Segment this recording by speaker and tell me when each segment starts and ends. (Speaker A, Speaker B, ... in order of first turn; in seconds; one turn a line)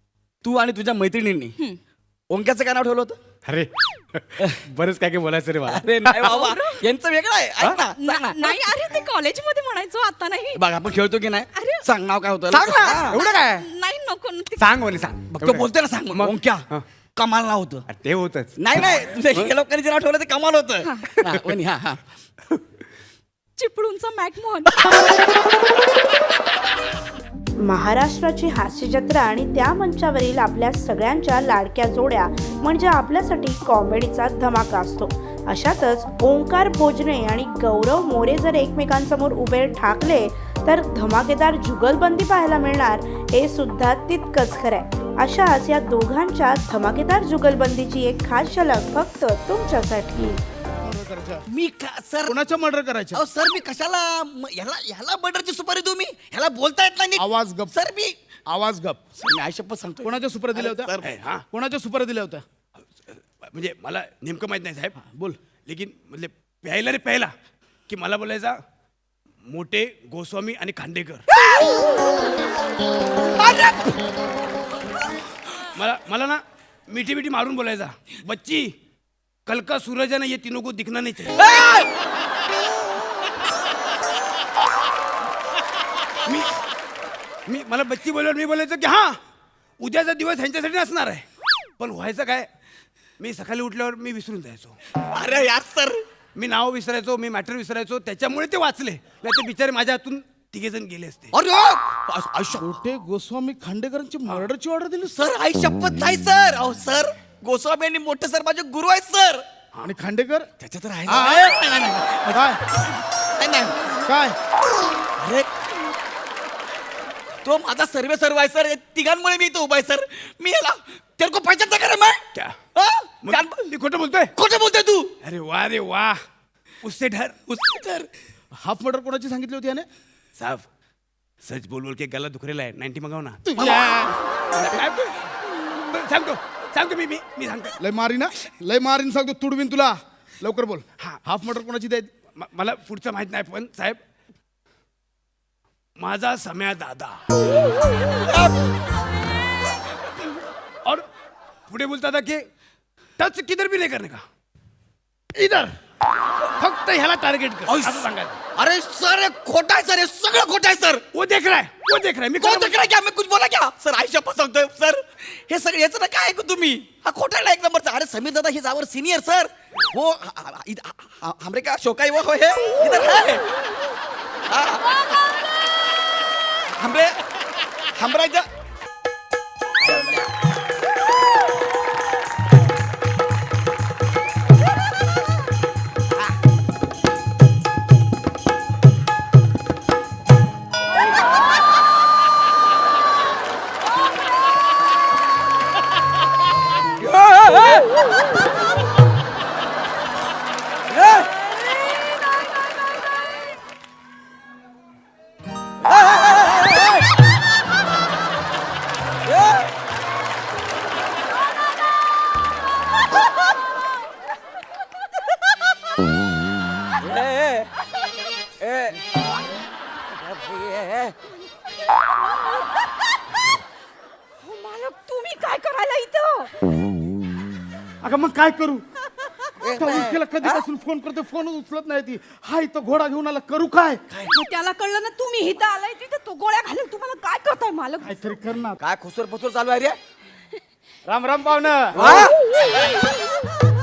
Speaker A: 0.4-1.5
Speaker A: 2.3-3.2
Speaker B: 3.5-6.5
Speaker A: 5.7-8.6
Speaker C: 6.2-6.7
Speaker C: 8.0-10.6
Speaker A: 10.5-13.2
Speaker C: 11.5-11.8
Speaker B: 12.5-13.7
Speaker C: 12.8-14.7
Speaker B: 14.6-16.9
Speaker A: 15.3-16.6
Speaker A: 17.2-17.9
Speaker B: 17.9-18.5
Speaker A: 18.6-22.0
Speaker C: 20.8-21.1
Speaker C: 23.6-24.9
Speaker D: 27.6-50.4
Speaker E: 50.8-51.4
Speaker A: 51.5-52.4
Speaker E: 52.2-53.2
Speaker A: 53.1-58.2
Speaker E: 57.2-57.8
Speaker E: 58.5-59.0
Speaker A: 59.2-61.2
Speaker E: 60.0-60.9
Speaker B: 61.0-61.5
Speaker E: 61.5-62.4
Speaker B: 63.1-65.0
Speaker A: 65.0-65.4
Speaker B: 65.6-67.3
Speaker B: 67.9-68.6
Speaker B: 69.4-71.2
Speaker A: 71.3-71.8
Speaker A: 73.2-74.0
Speaker B: 75.8-78.7
Speaker B: 79.5-81.5
Speaker A: 81.4-81.9
Speaker B: 86.2-86.6
Speaker B: 87.5-89.2
Speaker B: 89.8-91.2
Speaker B: 91.8-92.5
Speaker B: 93.2-94.8
Speaker A: 95.0-96.0
Speaker B: 96.3-101.3
Speaker A: 101.3-102.7
Speaker E: 102.5-105.1
Speaker A: 105.0-109.4
Speaker E: 109.8-110.5
Speaker A: 110.6-114.0
Speaker E: 111.1-111.5
Speaker E: 112.3-112.6
Speaker E: 114.0-114.4
Speaker A: 117.4-123.7
Speaker B: 123.2-124.3
Speaker A: 124.4-125.1
Speaker B: 125.2-126.2
Speaker B: 126.8-127.3
Speaker A: 127.5-128.1
Speaker E: 128.5-129.9
Speaker B: 130.4-130.7
Speaker B: 131.4-133.8
Speaker E: 133.5-134.2
Speaker B: 134.5-137.8
Speaker E: 137.8-142.1
Speaker B: 142.3-144.0
Speaker B: 146.0-147.2
Speaker A: 148.3-148.5
Speaker B: 151.7-152.5
Speaker B: 153.2-154.2
Speaker E: 155.4-155.7
Speaker B: 156.5-158.3
Speaker A: 158.6-161.0
Speaker B: 161.1-162.8
Speaker A: 162.4-173.4
Speaker A: 174.5-175.0
Speaker A: 176.7-177.2
Speaker A: 177.9-178.5
Speaker A: 179.8-180.2
Speaker A: 197.0-197.9
Speaker A: 201.0-201.2
Speaker A: 205.8-206.9
Speaker A: 209.3-209.7
Speaker A: 217.0-217.7
Speaker A: 218.6-219.0
Speaker A: 220.2-221.2
Speaker C: 224.4-226.7
Speaker E: 228.0-228.8
Speaker A: 229.6-230.6
Speaker E: 229.7-234.0
Speaker C: 234.3-238.3
Speaker E: 238.0-238.8
Speaker A: 238.8-240.0
Speaker E: 241.1-242.0
Speaker A: 241.9-242.4